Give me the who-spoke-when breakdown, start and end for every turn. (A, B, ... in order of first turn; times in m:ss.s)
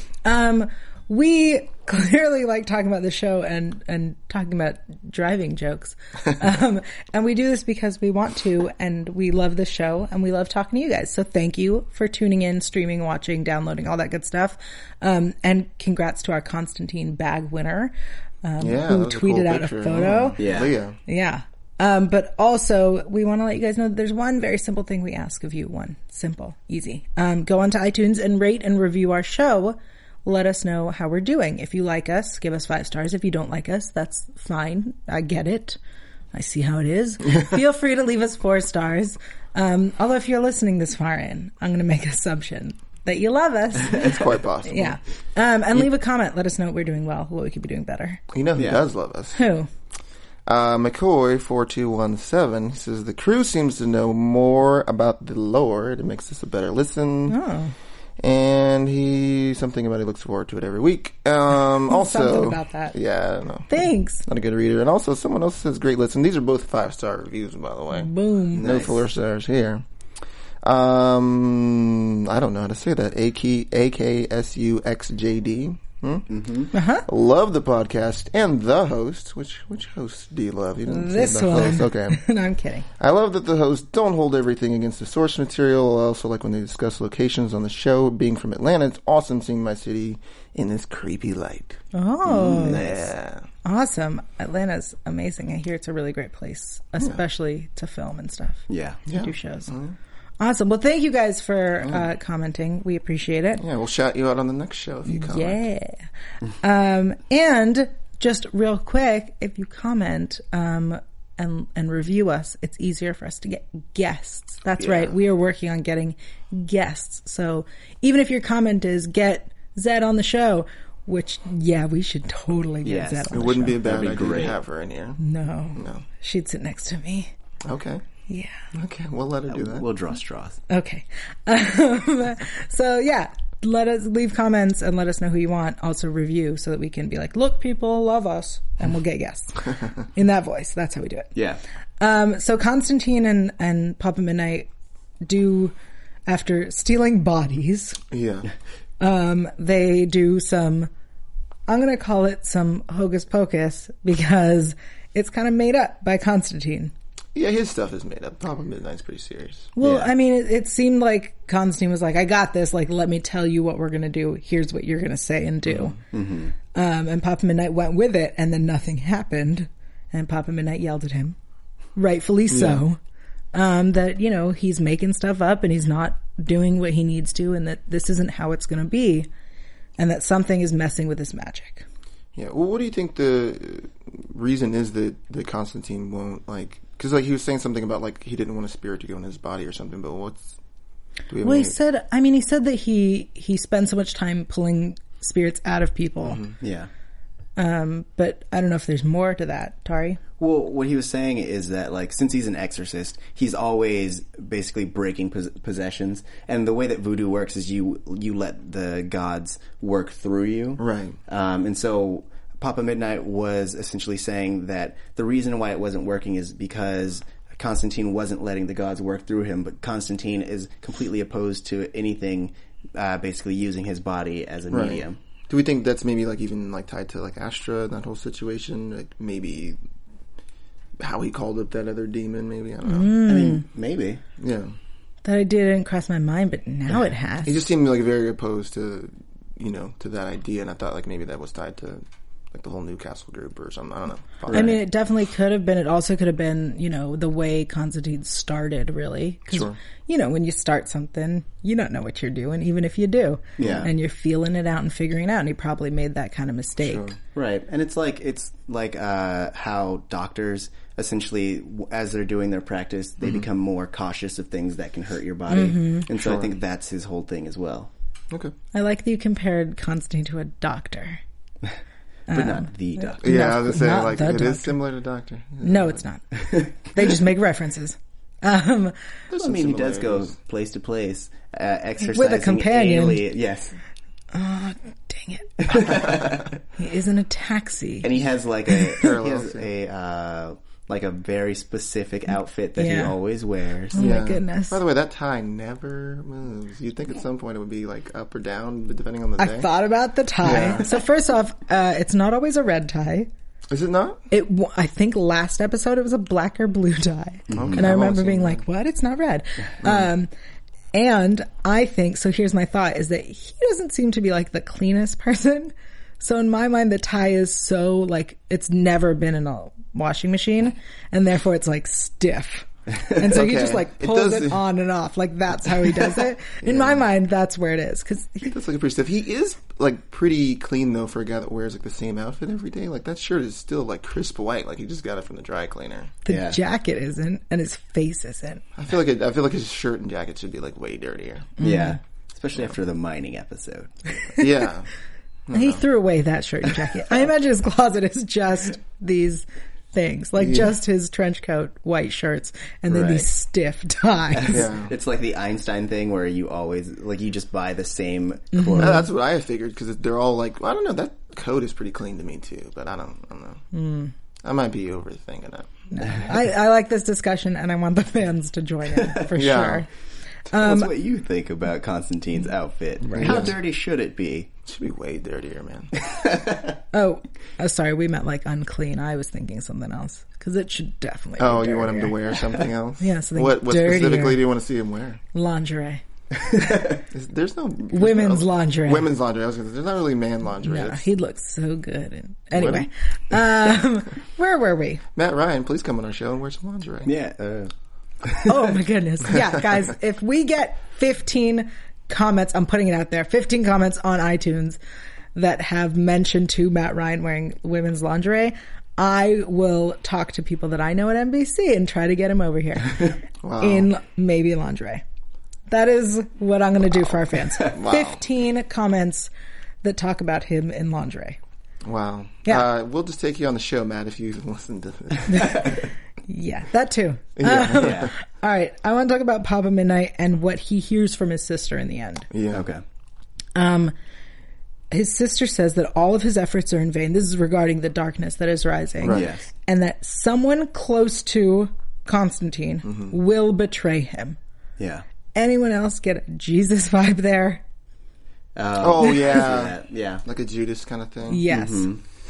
0:00.2-0:17.9 A
0:18.4-0:20.4 A
0:18.6-0:21.0 B
0:20.4-0:20.7 C
0:21.0-0:35.8 A
0:36.3-0:48.2 A
0:43.8-0:45.0 B
0:48.3-0:49.4 B
0:48.6-0:48.8 C
0:49.3-0:49.7 A
0:50.4-0:57.4 B
0:57.3-0:57.7 A
0:58.2-1:09.8 B
1:01.9-1:02.9 A
1:03.7-1:04.2 A
1:07.9-1:08.6 A
1:08.6-1:09.0 C
1:10.6-1:16.3 B
1:16.3-1:16.7 C
1:16.7-1:17.0 A
1:17.0-1:22.2 B
1:20.9-1:22.9 A
1:23.0-1:33.5 B
1:31.9-1:32.9 A
1:32.3-1:33.1 C
1:33.6-1:39.7 A
1:38.7-1:39.0 C
1:39.1-1:40.0 B
1:40.4-1:43.6 A
1:43.6-1:45.6 B
1:45.1-1:46.0 A
1:46.6-2:03.9 A
1:54.8-1:55.1 B
2:02.8-2:04.6 C
2:03.3-2:05.2 B
2:05.2-2:07.3 A
2:05.8-2:06.0 B
2:07.6-2:08.0 B
2:08.3-2:08.6 A
2:08.7-2:09.9 B
2:09.5-2:10.6 C
2:10.7-2:21.3 A
2:21.3-2:21.6 C
2:22.0-2:24.7 A
2:25.2-2:25.7 A
2:26.3-2:28.0 A
2:28.1-2:28.5 B
2:29.0-2:30.9 A
2:31.7-2:36.9 A
2:37.3-2:39.7 B
2:39.8-2:46.0 A
2:39.8-2:40.1 C
2:46.1-2:46.5 C
2:46.7-2:51.4 A
2:52.0-2:53.0 A
2:52.5-2:52.8 B
2:53.5-2:59.3 A
3:00.0-3:01.8 A
3:02.3-3:10.6 B
3:11.3-3:11.8 B
3:11.4-3:16.4 A
3:16.6-3:16.9 C
3:17.6-3:20.2 A
3:20.4-3:45.2 C
3:30.8-3:31.2 B
3:44.7-3:49.8 B
3:51.0-3:53.1 B
3:52.8-3:53.6 A
3:53.2-3:54.2 C
3:54.4-3:54.7 B
3:55.2-3:57.6 A
3:57.4-4:04.8 B
4:04.4-4:04.8 C
4:04.5-4:17.1 A
4:09.5-4:09.8 B
4:13.6-4:13.9 C
4:16.8-4:17.2 B
4:17.3-4:27.9 C
4:25.5-4:26.1 A
4:26.1-4:26.5 B
4:28.7-4:31.2 A
4:32.3-4:34.8 A
4:32.3-4:33.2 C
4:33.2-4:36.0 B
4:35.6-4:39.0 A
4:39.3-4:40.3 B
4:39.3-4:43.8 C
4:42.0-4:43.2 A
4:44.3-4:48.1 A
4:45.7-4:46.4 C
4:48.0-4:54.0 C
4:49.0-4:49.7 B
4:52.8-4:53.2 A
4:53.9-4:54.8 A
4:53.9-4:59.7 B
4:59.4-5:03.3 A
5:00.4-5:00.9 B
5:03.7-5:04.2 B
5:04.3-5:10.3 A
5:07.5-5:07.9 C
5:07.5-5:08.6 B
5:10.9-5:28.5 A
5:23.2-5:24.6 B
5:26.6-5:27.0 B
5:28.4-5:36.1 B
5:36.2-5:38.6 A
5:36.3-5:36.6 C
5:38.7-5:41.5 B
5:41.6-5:42.0 A
5:41.6-5:43.9 C
5:44.2-5:44.5 A
5:44.4-5:44.9 B
5:45.5-5:45.8 B
5:45.5-5:54.7 A
5:50.4-5:50.7 B
5:52.9-5:53.3 C
5:54.3-5:59.0 C
5:54.5-5:54.9 B
5:58.5-5:59.0 A
5:58.8-6:03.6 B
6:03.7-6:04.1 A
6:04.4-6:05.7 B
6:05.9-6:09.9 A
6:09.0-6:09.2 C
6:09.3-6:09.8 B
6:10.5-6:10.9 A
6:10.5-6:14.5 C
6:13.1-6:13.5 B
6:14.6-6:15.9 B
6:16.0-6:16.8 C
6:16.9-6:22.4 A
6:21.4-6:25.2 B
6:23.0-6:24.4 A
6:25.3-6:26.0 A
6:26.5-6:26.8 C
6:27.1-6:31.0 B
6:27.9-6:29.1 A
6:30.6-6:35.0 A
6:32.5-6:32.9 B
6:35.1-6:37.1 B
6:37.0-6:37.7 C
6:38.2-6:38.7 C
6:38.4-6:44.8 A
6:45.3-6:55.0 A
6:53.4-6:53.9 B
6:55.7-6:59.3 A
6:57.6-6:58.2 B
6:59.8-7:01.4 A
7:01.8-7:05.7 B
7:05.3-7:12.3 A
7:07.4-7:08.1 B
7:07.7-7:08.1 C
7:12.3-7:12.6 B
7:12.5-7:12.8 C
7:13.5-7:13.9 A
7:14.9-7:24.4 A
7:19.0-7:19.3 B
7:19.1-7:19.5 C
7:22.8-7:23.1 B
7:24.8-7:25.0 C
7:25.3-7:27.6 A
7:28.6-7:30.2 C
7:28.8-7:31.4 B
7:31.3-7:31.9 A
7:31.5-7:32.0 C